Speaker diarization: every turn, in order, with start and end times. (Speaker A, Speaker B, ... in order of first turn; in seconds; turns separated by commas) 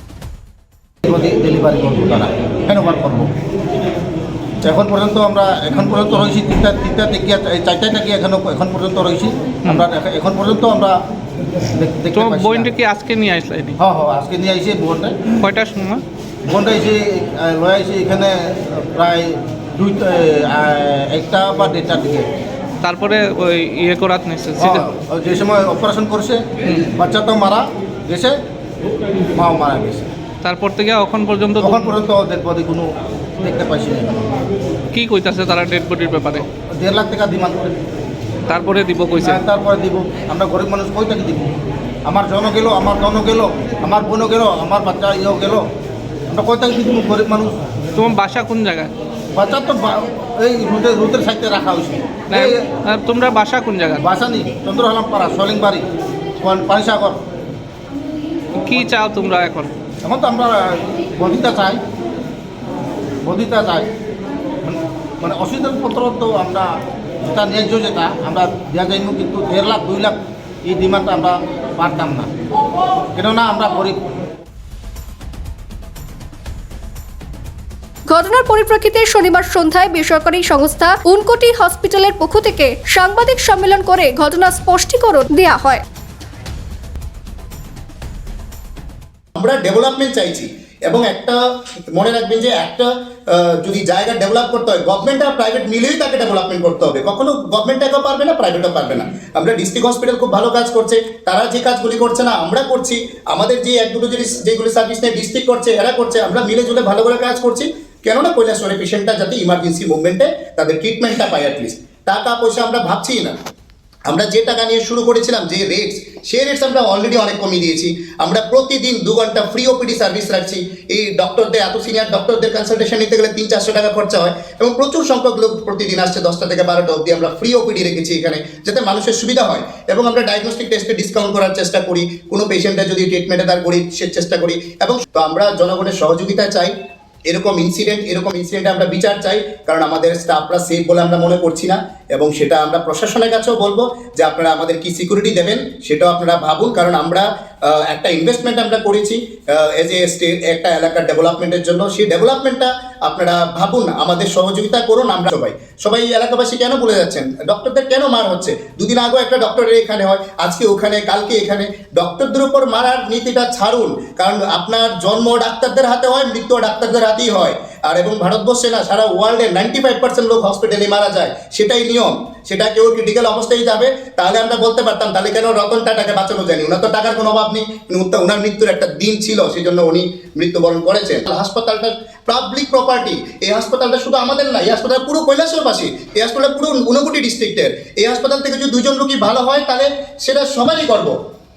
Speaker A: 1.0-3.3, Speaker A: 4.6-11.0, Speaker A: 11.7-12.7, Speaker B: 12.1-13.8, Speaker A: 13.8-15.2, Speaker B: 15.4-16.0, Speaker A: 16.4-22.3, Speaker B: 22.8-24.9, Speaker A: 24.6-28.4, Speaker A: 29.3-30.1, Speaker B: 30.4-31.9, Speaker A: 31.6-34.3, Speaker B: 34.9-36.4, Speaker A: 36.8-37.7, Speaker B: 38.5-39.4, Speaker A: 39.2-41.5, Speaker A: 42.0-45.6, Speaker A: 46.3-47.6, Speaker B: 48.0-48.9, Speaker A: 49.3-52.6, Speaker B: 52.3-54.0, Speaker A: 54.0-55.9, Speaker A: 56.4-57.2, Speaker B: 58.5-59.7, Speaker A: 60.0-61.8, Speaker A: 63.2-63.9, Speaker A: 64.6-72.3, Speaker A: 73.1-74.1, Speaker C: 78.1-85.8, Speaker D: 89.3-91.4, Speaker D: 91.9-113.3, Speaker D: 114.1-136.7, Speaker D: 137.3-191.1